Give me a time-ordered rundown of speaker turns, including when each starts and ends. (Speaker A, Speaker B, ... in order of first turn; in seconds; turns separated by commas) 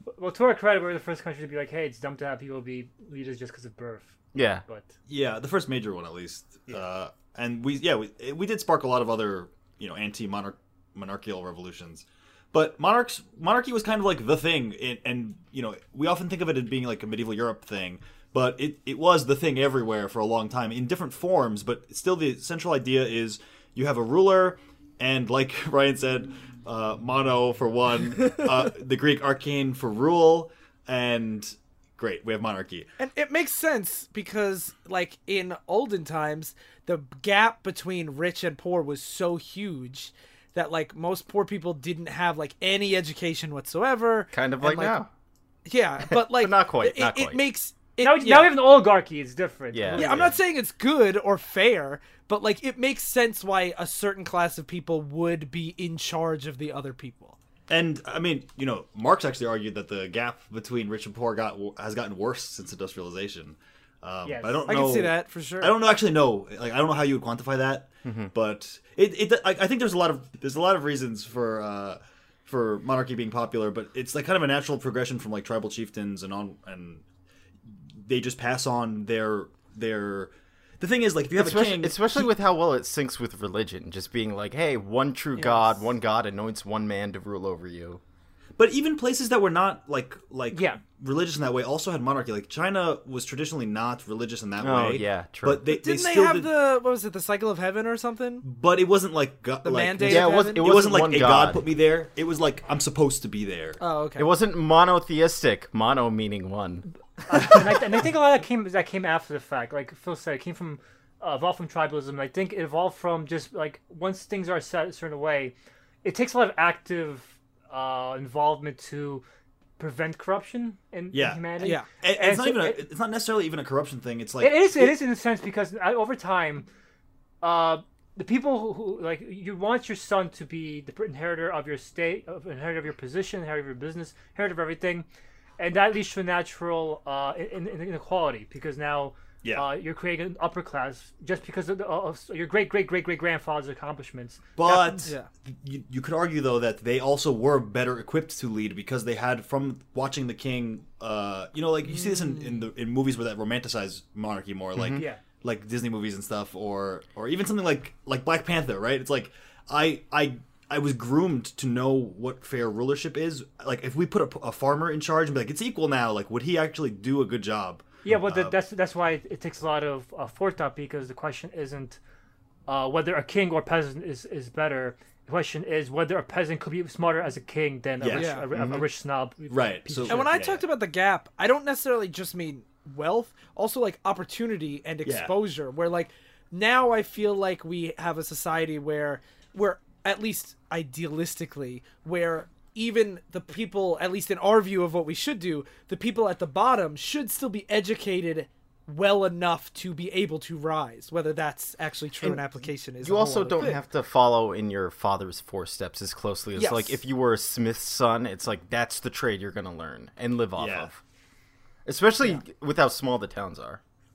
Speaker A: 0.2-4.9, Speaker B: 4.3-4.6, Speaker C: 5.1-32.9, Speaker D: 33.0-45.0, Speaker B: 44.3-45.1, Speaker D: 45.6-48.5, Speaker B: 46.1-47.4, Speaker A: 48.0-50.3, Speaker B: 49.7-50.3, Speaker D: 50.0-57.4, Speaker C: 57.7-77.0, Speaker A: 64.2-64.6, Speaker D: 64.7-65.7, Speaker B: 68.0-68.3, Speaker C: 78.0-82.3, Speaker B: 81.3-88.0, Speaker A: 85.4-85.8, Speaker C: 88.6-96.5, Speaker A: 90.5-90.8, Speaker B: 94.6-95.6, Speaker D: 95.7-98.4, Speaker C: 98.4-103.8, Speaker D: 99.6-100.7, Speaker B: 100.0-101.6, Speaker D: 103.8-104.3, Speaker B: 104.2-106.8, Speaker A: 107.3-119.2, Speaker A: 119.8-122.8, Speaker C: 121.1-124.9, Speaker D: 121.6-121.9, Speaker A: 124.4-126.7, Speaker A: 127.4-135.1, Speaker A: 135.6-144.4, Speaker C: 144.6-168.5, Speaker D: 144.7-145.3, Speaker D: 151.9-152.6, Speaker B: 154.8-155.0, Speaker A: 154.9-155.2, Speaker A: 168.0-172.0, Speaker A: 172.7-180.3, Speaker C: 178.0-178.8, Speaker D: 178.1-178.4, Speaker B: 178.5-178.8, Speaker C: 179.5-180.6, Speaker D: 180.1-203.8, Speaker C: 185.0-185.3, Speaker B: 203.0-211.0, Speaker D: 206.6-206.9, Speaker C: 210.6-210.9, Speaker B: 211.8-213.8